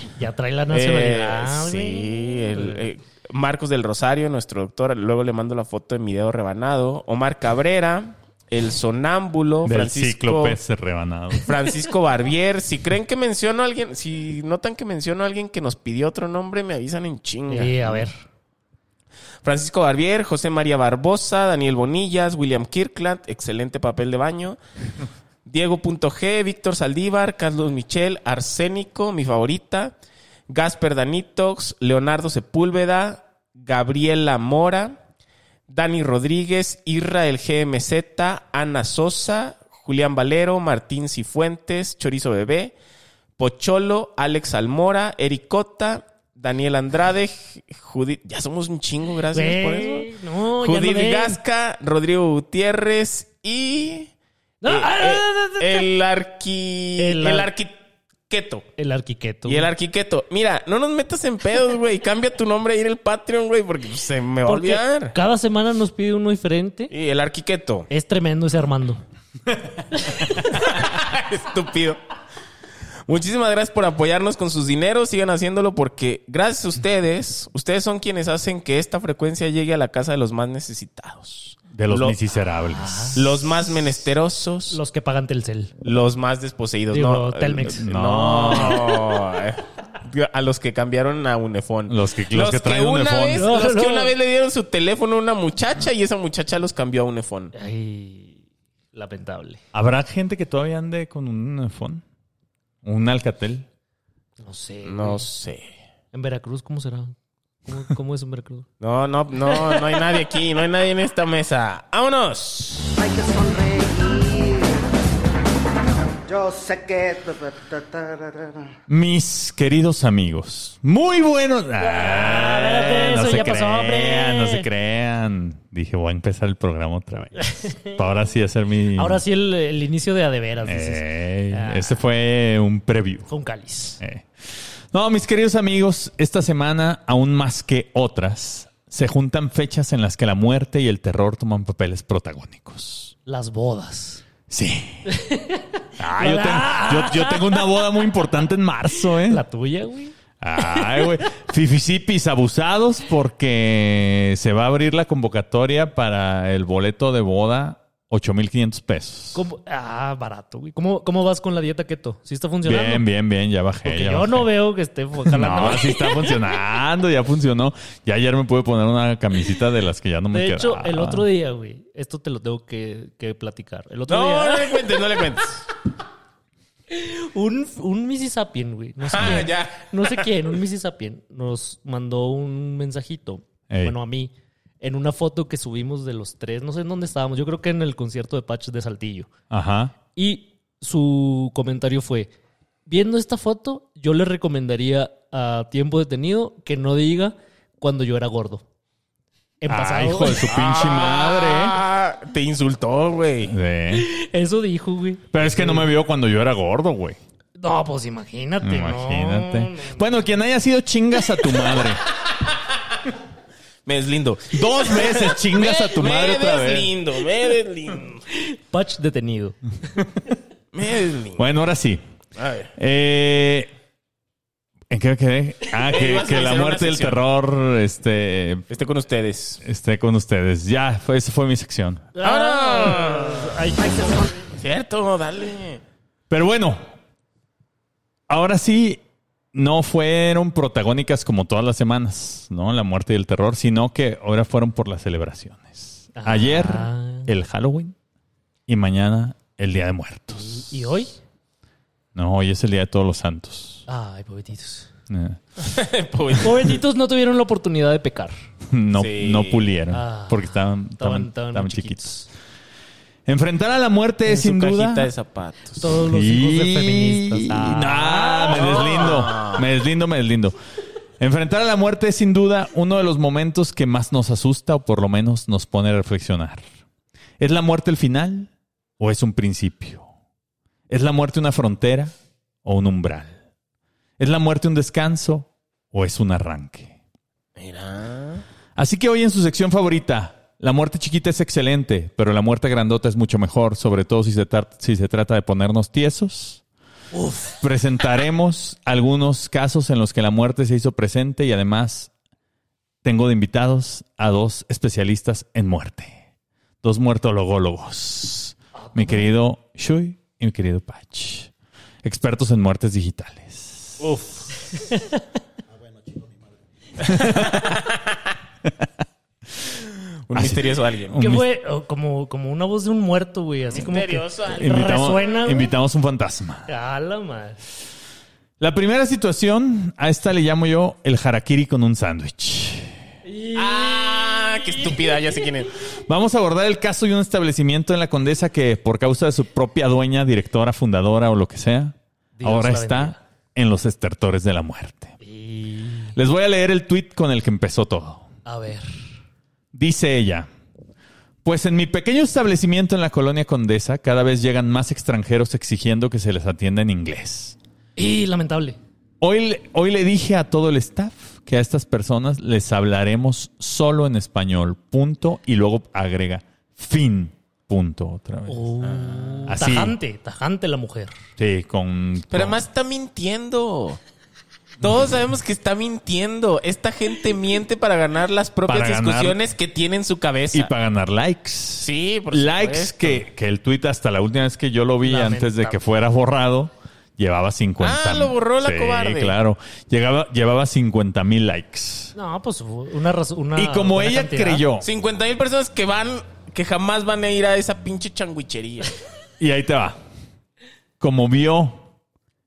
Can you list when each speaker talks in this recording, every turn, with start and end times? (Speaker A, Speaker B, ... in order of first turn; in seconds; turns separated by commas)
Speaker A: 0.1-2.8, Speaker B: 0.7-10.6, Speaker C: 9.6-11.5, Speaker B: 11.4-18.1, Speaker A: 17.5-18.1, Speaker B: 19.4-24.6, Speaker B: 25.4-29.9, Speaker B: 30.5-35.0, Speaker B: 35.7-42.8, Speaker B: 43.4-54.1, Speaker A: 49.3-51.4, Speaker A: 54.6-55.9, Speaker B: 54.6-57.7, Speaker A: 57.0-57.5, Speaker B: 58.3-58.7, Speaker A: 58.8-59.7, Speaker B: 59.5-65.1, Speaker A: 64.5-66.9, Speaker B: 66.9-67.9, Speaker A: 67.9-69.0, Speaker A: 70.0-70.4, Speaker B: 70.5-72.0, Speaker B: 73.1-82.2, Speaker C: 81.7-83.4, Speaker A: 82.7-83.3, Speaker B: 83.1-84.8, Speaker A: 84.7-85.7, Speaker B: 85.8-97.5, Speaker A: 86.9-87.8, Speaker C: 87.7-89.0, Speaker C: 91.9-93.5, Speaker A: 93.3-94.1, Speaker A: 97.5-98.4, Speaker A: 98.9-99.6, Speaker C: 99.7-102.0, Speaker C: 102.8-103.7, Speaker A: 104.4-105.3, Speaker B: 104.8-105.7, Speaker A: 106.1-107.1, Speaker A: 107.7-108.7, Speaker B: 108.8-112.9, Speaker A: 109.5-110.0, Speaker D: 113.0-114.8, Speaker D: 116.2-118.7, Speaker C: 118.9-129.2, Speaker A: 121.8-124.7, Speaker A: 127.5-127.9, Speaker A: 128.9-132.0, Speaker C: 130.6-133.3, Speaker A: 133.3-134.0, Speaker C: 134.0-143.1, Speaker A: 143.2-144.2, Speaker C: 144.5-145.1, Speaker A: 145.1-147.9, Speaker C: 146.0-149.4, Speaker A: 149.2-151.1, Speaker C: 150.4-159.4, Speaker A: 159.3-163.1, Speaker C: 162.6-164.5, Speaker A: 163.8-166.3, Speaker C: 165.2-171.2, Speaker A: 170.3-174.8, Speaker B: 174.1-175.6, Speaker A: 176.9-189.3, Speaker B: 179.0-180.3, Speaker C: 183.7-183.9, Speaker C: 189.5-189.9, Speaker A: 190.1-192.3, Speaker A: 192.9-198.6, Speaker A: 199.6-200.5, Speaker C: 199.7-201.8, Speaker B: 200.5-203.5, Speaker C: 203.4-204.1, Speaker A: 203.9-205.9, Speaker C: 205.3-207.2, Speaker A: 207.6-210.0, Speaker C: 208.6-212.0, Speaker B: 213.8-218.2, Speaker C: 214.5-216.9, Speaker A: 218.4-219.6, Speaker B: 220.7-221.4, Speaker C: 221.4-222.0, Speaker B: 222.3-222.7, Speaker C: 222.8-223.7, Speaker C: 224.9-228.6, Speaker B: 225.9-227.2, Speaker B: 228.7-229.6, Speaker C: 229.6-232.1, Speaker A: 232.1-234.4, Speaker B: 232.2-233.6, Speaker B: 234.6-235.8, Speaker C: 236.3-236.9, Speaker C: 238.3-239.0, Speaker C: 239.5-247.9, Speaker A: 246.1-247.3, Speaker C: 248.7-250.9, Speaker A: 250.3-251.1, Speaker C: 252.1-253.8, Speaker A: 253.9-254.9, Speaker C: 255.1-255.4, Speaker B: 255.6-256.8, Speaker A: 256.4-258.4, Speaker C: 258.7-262.1, Speaker B: 258.9-259.7, Speaker A: 259.9-262.3, Speaker C: 263.2-265.1, Speaker B: 264.2-265.9, Speaker A: 265.8-269.2, Speaker C: 266.0-270.6, Speaker B: 268.5-269.6, Speaker C: 271.2-276.6, Speaker C: 277.4-280.1, Speaker C: 280.9-282.1, Speaker C: 282.6-283.4, Speaker C: 284.2-286.9, Speaker B: 287.6-288.4, Speaker C: 288.8-296.6, Speaker A: 297.1-297.5, Speaker C: 297.6-302.1, Speaker C: 303.0-306.2, Speaker C: 306.8-311.5, Speaker A: 308.8-309.2, Speaker C: 312.0-314.0, Speaker B: 314.0-314.2, Speaker A: 314.7-315.2, Speaker D: 315.8-316.4, Speaker C: 317.0-317.8, Speaker B: 317.1-318.2, Speaker B: 320.3-321.2, Speaker C: 320.3-321.4, Speaker A: 321.2-325.7, Speaker B: 323.7-325.3, Speaker C: 324.4-326.7, Speaker A: 326.7-327.6, Speaker C: 328.6-332.9, Speaker A: 333.2-335.4, Speaker B: 333.5-335.7, Speaker C: 336.1-345.1, Speaker A: 342.4-343.2, Speaker A: 345.2-346.1, Speaker C: 346.1-348.2, Speaker A: 348.4-348.9, Speaker C: 349.7-350.5, Speaker C: 351.4-357.6, Speaker A: 358.0-358.8, Speaker C: 359.2-368.7, Speaker A: 368.5-371.1, Speaker B: 368.8-369.5, Speaker C: 369.5-369.9, Speaker C: 371.4-372.6, Speaker B: 372.3-374.0, Speaker B: 374.8-380.7, Speaker C: 378.7-379.4, Speaker C: 380.5-392.1, Speaker B: 381.8-383.2, Speaker A: 385.0-385.8, Speaker B: 387.8-389.4, Speaker A: 392.1-394.6, Speaker C: 393.5-394.8, Speaker B: 394.8-398.9, Speaker C: 399.4-400.0, Speaker C: 401.0-401.8